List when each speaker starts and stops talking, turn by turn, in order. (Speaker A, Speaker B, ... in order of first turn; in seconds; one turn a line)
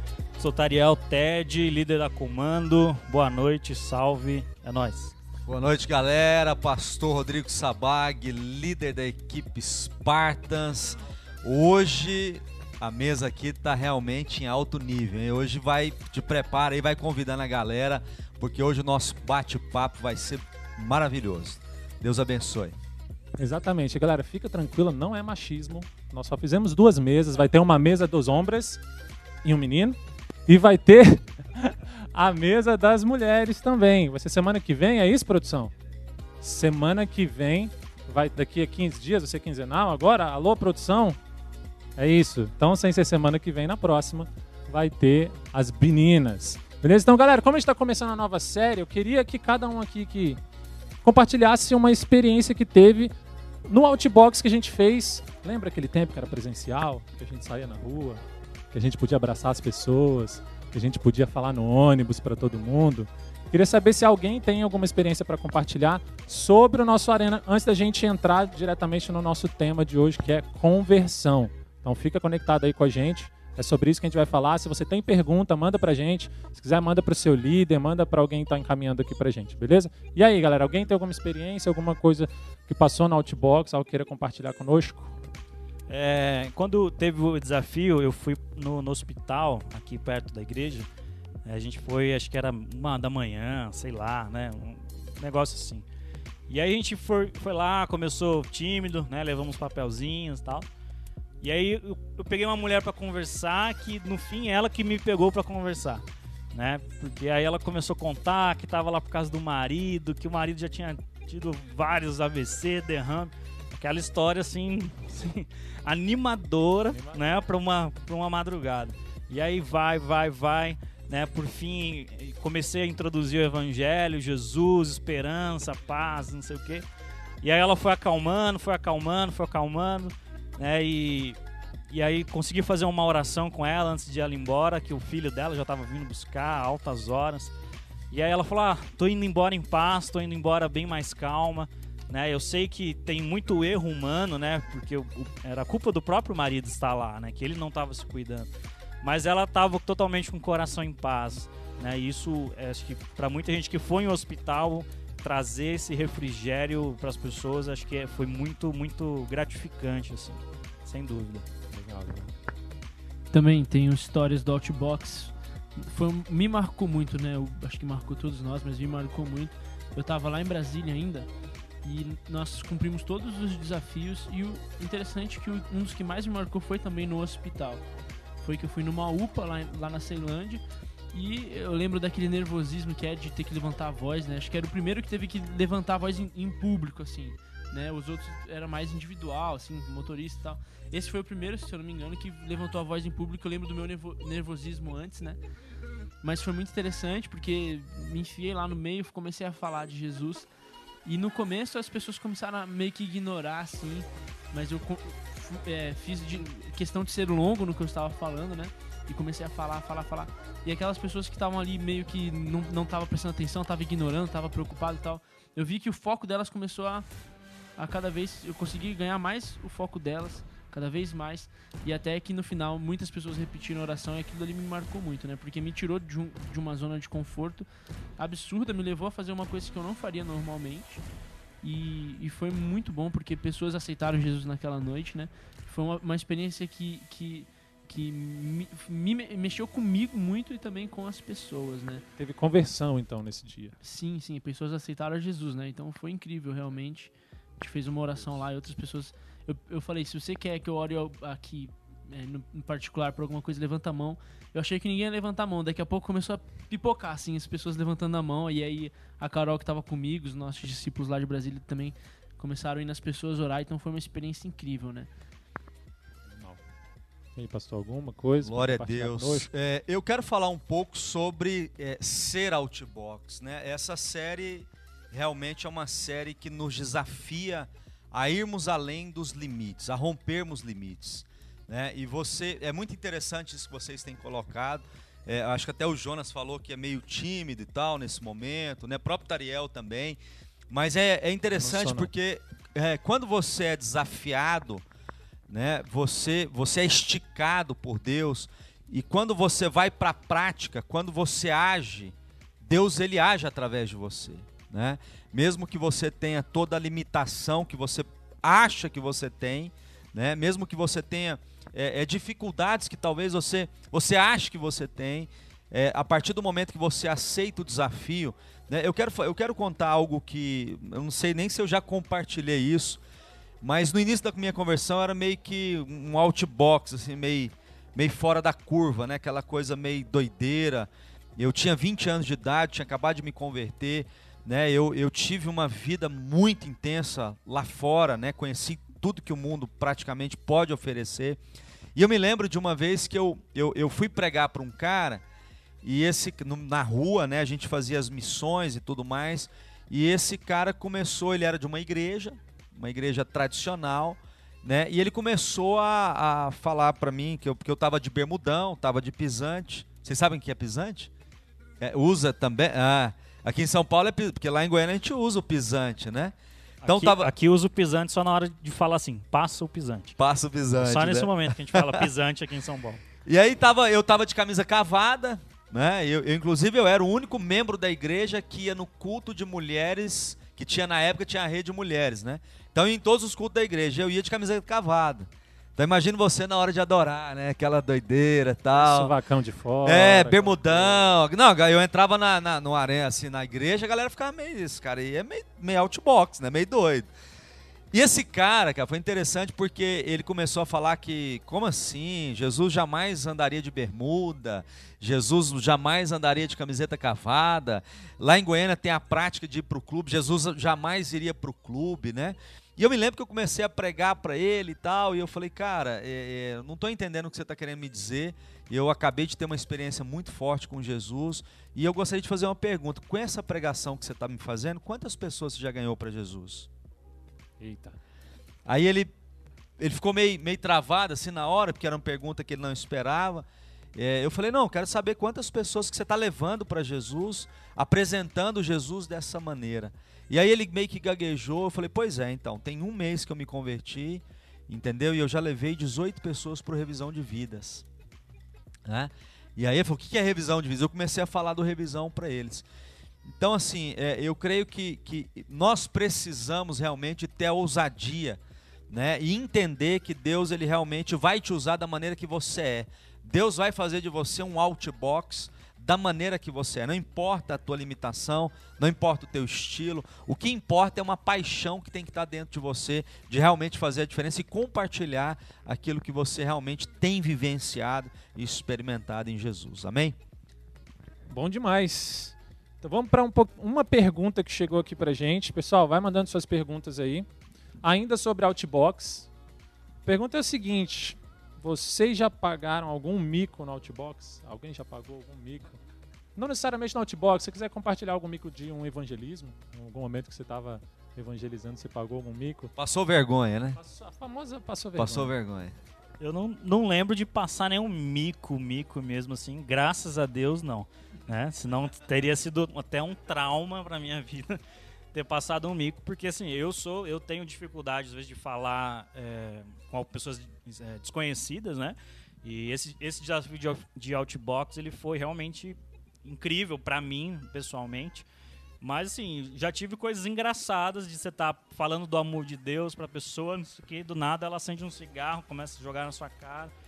Speaker A: 0.4-5.1
Speaker B: 5.5-22.8
Speaker C: 23.4-28.8
Speaker C: 29.4-35.7
Speaker C: 36.4-41.2
Speaker C: 42.0-50.4
Speaker C: 51.0-53.1
Speaker C: 53.7-85.1
Speaker A: 85.9-90.9
Speaker A: 91.5-95.8
Speaker A: 96.5-100.7
Speaker A: 101.4-126.8
Speaker C: 116.9-117.4
Speaker A: 127.4-131.4
Speaker A: 131.9-137.5
Speaker A: 138.1-148.5
Speaker A: 149.0-161.4
Speaker C: 161.7-162.3
Speaker D: 163.3-171.3
Speaker D: 171.8-177.8
Speaker D: 178.4-195.4
Speaker D: 196.2-200.5
Speaker D: 201.0-217.1
Speaker D: 217.8-227.7
Speaker D: 228.2-231.0
Speaker D: 231.6-242.0
Speaker C: 242.2-243.8
Speaker D: 243.8-265.1
Speaker C: 266.3-266.6
Speaker C: 267.4-269.5
Speaker B: 268.4-290.2
Speaker B: 290.7-294.8
Speaker C: 291.6-292.1
Speaker B: 295.5-323.0
Speaker B: 323.6-341.4
Speaker B: 341.9-345.2
Speaker B: 345.8-361.1
Speaker B: 361.8-367.3
Speaker A: 366.8-370.2
Speaker B: 370.2-372.1
Speaker A: 370.8-373.0
Speaker B: 373.2-389.1
Speaker C: 388.7-391.1
Speaker B: 389.8-397.1
Speaker B: 397.9-426.7
Speaker C: 427.6-427.9
Speaker B: 428.6-429.1
Speaker B: 429.8-447.8
Speaker B: 448.9-452.6
Speaker B: 453.3-480.1
Speaker C: 481.3-487.3
Speaker C: 487.8-489.3
Speaker C: 490.0-495.8
Speaker C: 496.4-502.7
Speaker B: 502.8-503.8
Speaker C: 503.8-505.3
Speaker B: 504.9-505.8
Speaker A: 506.2-514.6
Speaker A: 515.1-528.2
Speaker A: 528.8-536.7